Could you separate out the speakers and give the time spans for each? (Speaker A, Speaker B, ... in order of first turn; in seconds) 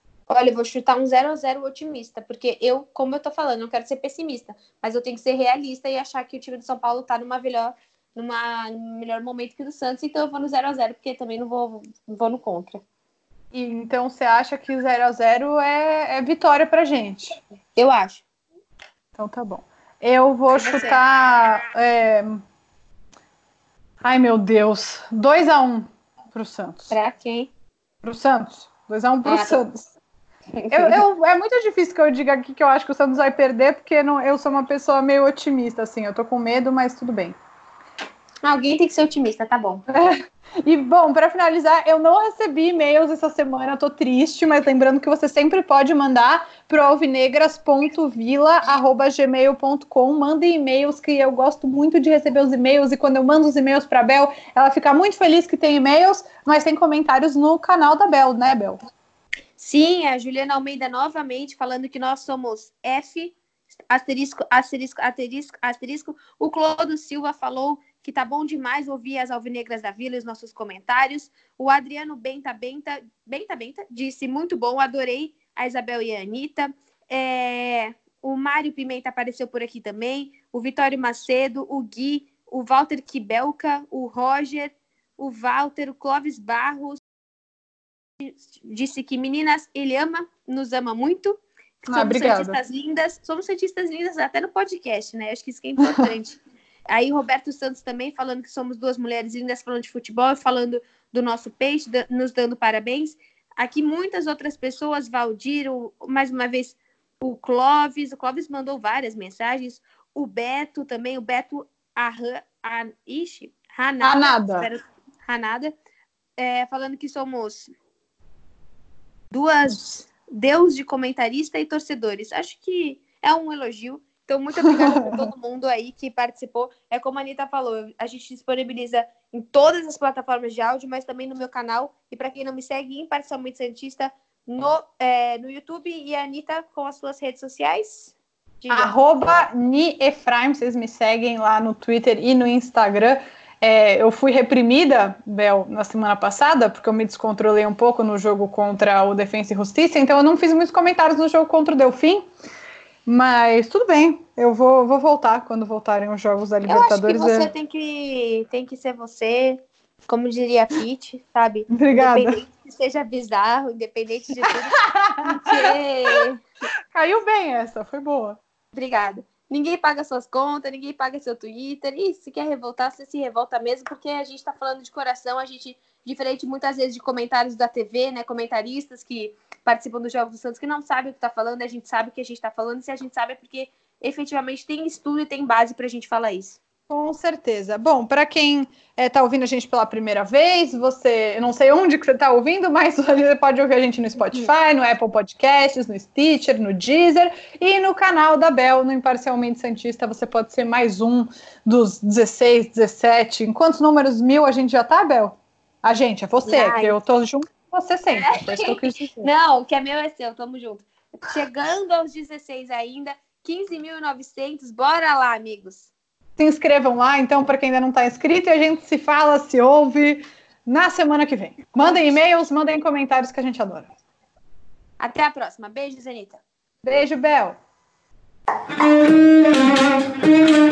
Speaker A: 0.3-12.8, 17.8-18.2, 20.5-21.0, 26.9-27.5, 29.2-29.6, 30.6-31.0, 38.4-39.8, 59.6-63.4, 63.9-87.0, 88.2-115.7, 116.4-117.7, 119.3-138.9, 156.7-166.4, 168.7-186.6, 206.4-207.0, 208.1-215.9, 225.0-226.4
Speaker B: 13.5-17.4, 19.2-22.4, 24.0-26.9, 28.0-29.9, 30.7-37.4, 39.9-58.8, 91.9-92.6, 114.0-114.7, 124.8-125.3, 138.7-152.3, 153.1-157.5, 161.7-162.4, 164.8-165.7, 166.9-168.4, 186.9-209.3, 216.4-223.9, 226.8-227.6